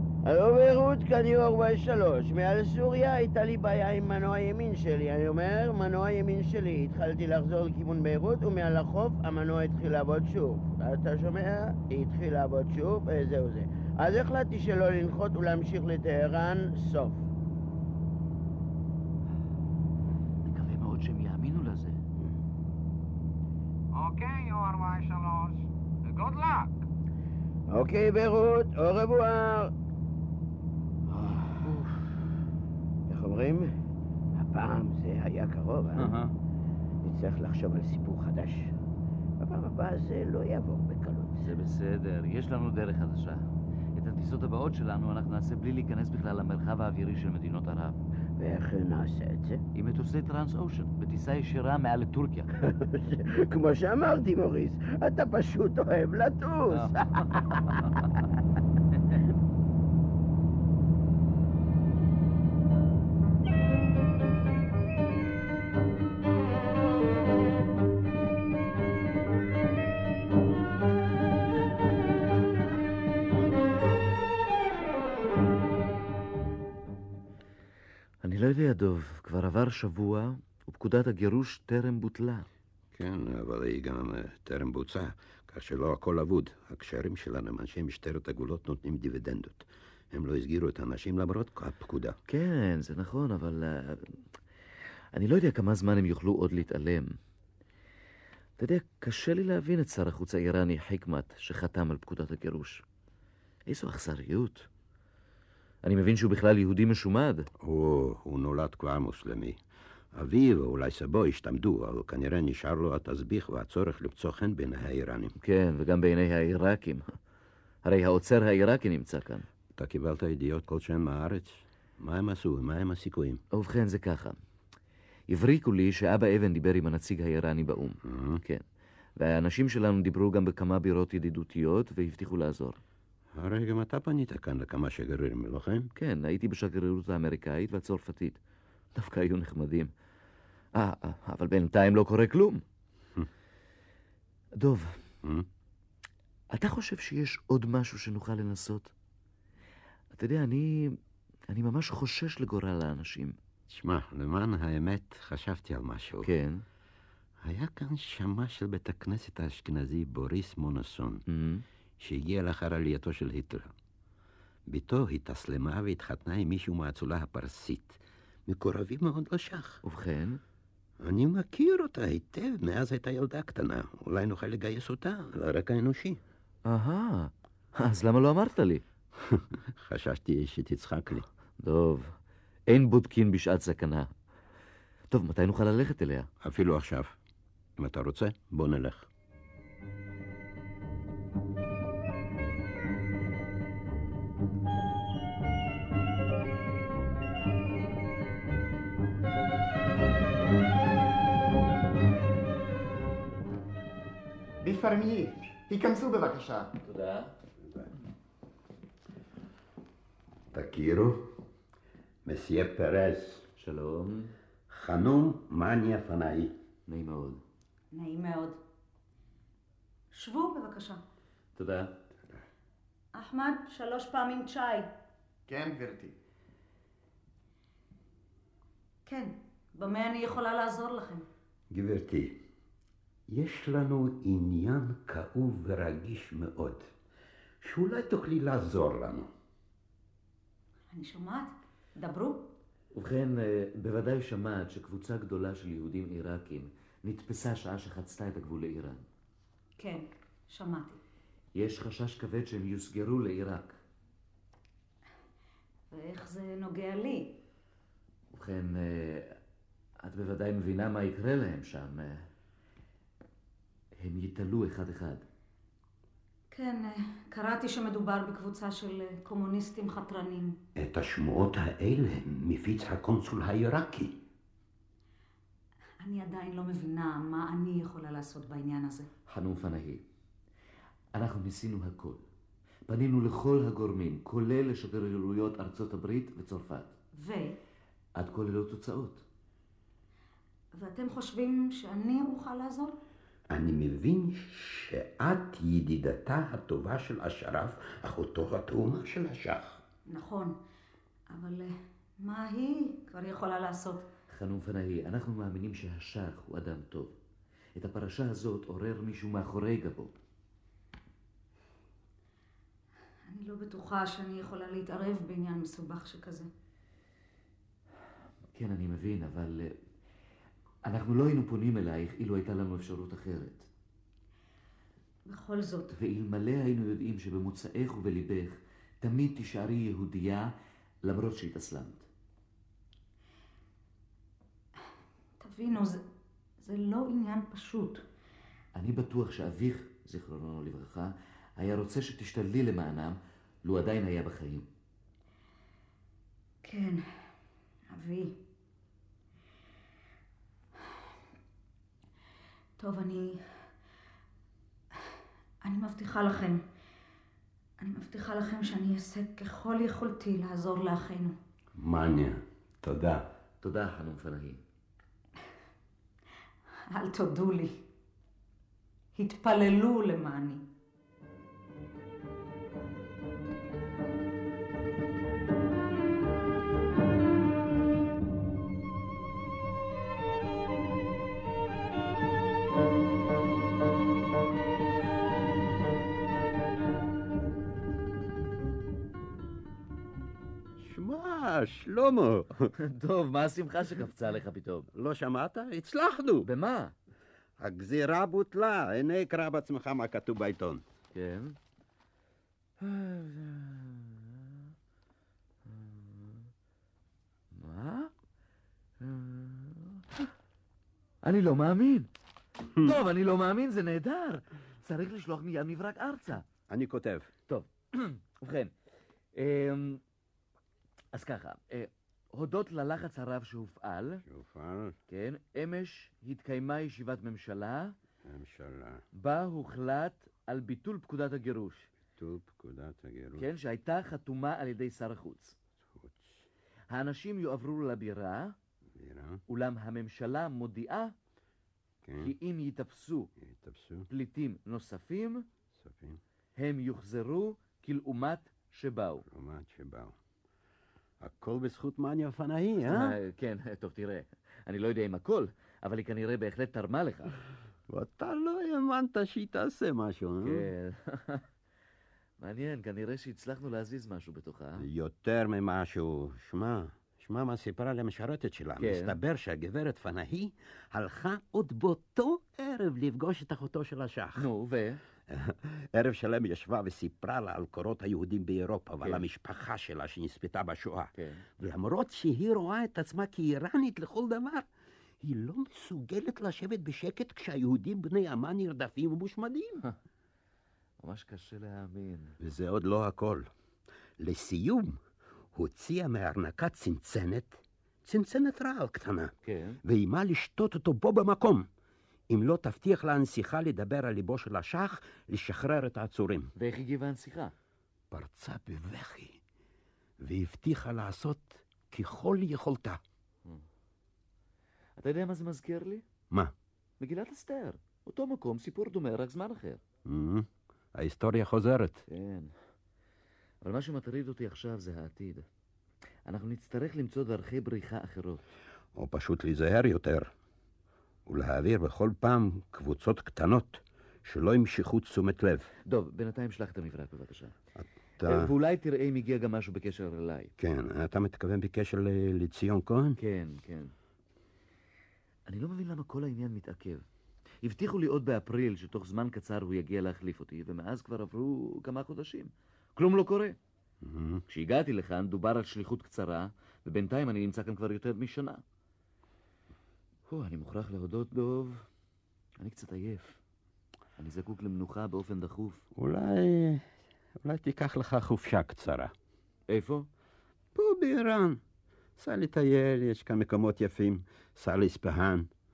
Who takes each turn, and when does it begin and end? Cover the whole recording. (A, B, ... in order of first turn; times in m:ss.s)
0:00.2-0:17.2 A
0:20.4-0:22.0 B
0:23.9-0:26.9 C
0:27.7-0:29.7 A
0:31.1-0:31.9 A
0:33.1-0:33.7 A
0:34.4-0:36.2 A
0:36.0-0:36.3 B
0:37.0-0:38.7 A
0:39.4-0:41.4 A
0:41.4-0:48.0 B
0:48.4-0:49.6 A
0:49.8-0:52.5 B
0:52.6-0:57.8 A
0:56.7-0:58.1 B
1:18.2-1:22.5 B
1:22.9-1:32.2 D
1:32.3-1:34.2 B
1:35.1-1:37.2 B
1:38.6-1:42.8 B
1:43.7-1:44.7 B
1:45.8-1:47.5 B
1:47.6-1:49.6 D
1:50.1-1:55.4 D
1:55.4-1:57.1 B
1:57.8-1:59.5 B
1:59.7-2:03.4 D
2:03.5-2:04.4 B
2:05.3-2:08.6 B
2:08.0-2:08.4 D
2:09.2-2:12.8 B
2:13.3-2:15.9 D
2:16.0-2:18.4 B
2:19.0-2:19.9 B
2:20.7-2:22.6 B
2:24.6-2:25.0 B
2:26.5-2:28.9 B
2:30.1-2:31.0 B
2:31.5-2:33.4 B
2:33.7-2:36.3 D
2:36.2-2:36.6 B
2:37.4-2:41.2 D
2:41.3-2:41.6 B
2:42.0-2:43.7 D
2:44.7-2:49.8 D
2:49.8-2:50.4 B
2:51.0-2:56.2 D
2:56.7-2:58.8 B
2:59.2-3:01.3 D
3:01.6-3:02.2 B
3:02.7-3:04.1 B
3:05.1-3:06.3 B
3:06.4-3:07.2 D
3:07.8-3:09.1 D
3:24.6-3:26.7 E
3:26.8-3:27.3 B
3:27.6-3:27.9 D
3:30.5-3:31.4 D
3:32.2-3:33.4 D
3:33.6-3:34.3 B
3:34.7-3:36.5 D
3:36.9-3:37.4 B
3:37.9-3:38.6 F
3:40.1-3:41.0 F
3:41.6-3:42.0 B
3:43.2-3:44.9 F
3:45.5-3:46.1 E
3:49.1-3:51.3 F
3:51.7-3:52.4 D
3:53.3-3:56.9 D
3:57.6-3:59.3 D
4:00.9-4:02.5 F
4:02.9-4:09.0 B
4:09.8-4:11.0 F
4:11.6-4:13.8 B
4:15.9-4:17.4 F
4:18.3-4:19.4 B
4:20.0-4:22.3 B
4:24.0-4:25.2 B
4:26.5-4:30.6 F
4:30.8-4:34.2 D
4:36.0-4:39.1 F
4:39.3-4:40.0 B
4:41.1-4:42.2 B
4:42.9-4:46.9 B
4:47.1-4:47.6 F
4:48.2-4:49.2 B
4:50.8-4:52.9 F
4:53.5-4:59.8 D
5:00.1-5:00.6 F
5:01.3-5:04.1 F
5:04.3-5:07.2 B
5:07.8-5:10.2 B
5:13.3-5:16.5 F
5:18.5-5:19.8 B
5:20.8-5:23.7 B
5:25.3-5:25.9 F
5:25.9-5:30.5 B
5:31.0-5:32.1 B
5:35.4-5:36.0 F
5:36.6-5:38.0 F
5:38.8-5:44.7 B
5:46.6-5:47.0 F
5:47.9-5:48.4 F
5:52.8-5:53.4 F
5:55.6-5:56.6 F
5:57.8-6:01.4 F
6:01.8-6:03.2 D
6:03.6-6:04.6 B
6:06.9-6:07.8 F
6:09.2-6:10.6 F
6:30.8-6:32.7 D
6:32.8-6:34.9 B
6:34.9-6:36.5 D
6:36.4-6:37.0 B
6:37.6-6:40.8 D
6:41.1-6:41.6 B
6:42.8-6:44.6 B
6:45.6-6:46.5 B
6:47.5-6:48.1 B
6:49.0-6:50.1 B
6:51.2-6:52.1 B
6:52.8-6:56.5 B
6:56.7-6:57.3 D
6:57.5-6:58.7 B
6:59.4-7:00.0 B
7:01.1-7:04.2 B
7:04.2-7:05.0 D
7:05.1-7:08.0 B
7:08.2-7:09.0 D
7:09.1-7:11.9 B
7:12.2-7:13.5 D
7:13.4-7:15.6 B
7:15.8-7:16.4 D
7:16.9-7:18.6 B
7:18.9-7:19.4 D
7:19.5-7:21.1 B
7:22.0-7:22.3 D
7:22.2-7:23.3 B
7:23.4-7:24.1 D
7:24.1-7:25.5 B
7:25.8-7:26.2 D
7:26.6-7:29.2 B
7:29.3-7:30.2 D
7:31.2-7:33.2 D
7:32.9-7:37.4 B
7:37.9-7:40.7 D
7:40.4-7:41.4 B
7:42.4-7:44.9 B
7:44.8-7:54.5 D
7:48.8-7:49.2 B
7:54.4-7:55.0 B
7:55.3-8:04.7 D
8:01.2-8:01.5 B
8:05.2-8:09.8 D
8:11.0-8:12.4 B
8:12.4-8:13.5 D
8:14.2-8:15.0 D
8:15.5-8:21.7 D
8:19.4-8:19.8 B
8:22.3-8:26.5 D
8:26.6-8:27.5 B
8:28.1-8:29.4 D
8:30.2-8:33.0 D
8:35.0-8:36.0 B
8:37.0-8:39.8 B
8:40.0-8:42.0 D
8:42.1-8:42.5 B
8:43.6-8:45.5 B
8:46.3-8:48.4 B
8:49.0-8:50.3 D
8:51.3-8:55.7 D
8:55.9-8:57.5 B
8:57.8-8:58.5 D
8:58.2-9:00.5 B
9:00.6-9:03.2 D
9:03.2-9:03.9 B
9:05.5-9:07.1 B
9:07.6-9:13.6 B
9:14.0-9:14.4 D
9:14.5-9:18.6 B
9:20.3-9:21.9 B
9:22.6-9:23.4 B
9:24.2-9:25.9 B
9:26.0-9:26.8 D
9:27.4-9:29.1 D
9:29.7-9:30.1 B
9:30.8-9:31.6 D
9:32.2-9:35.5 D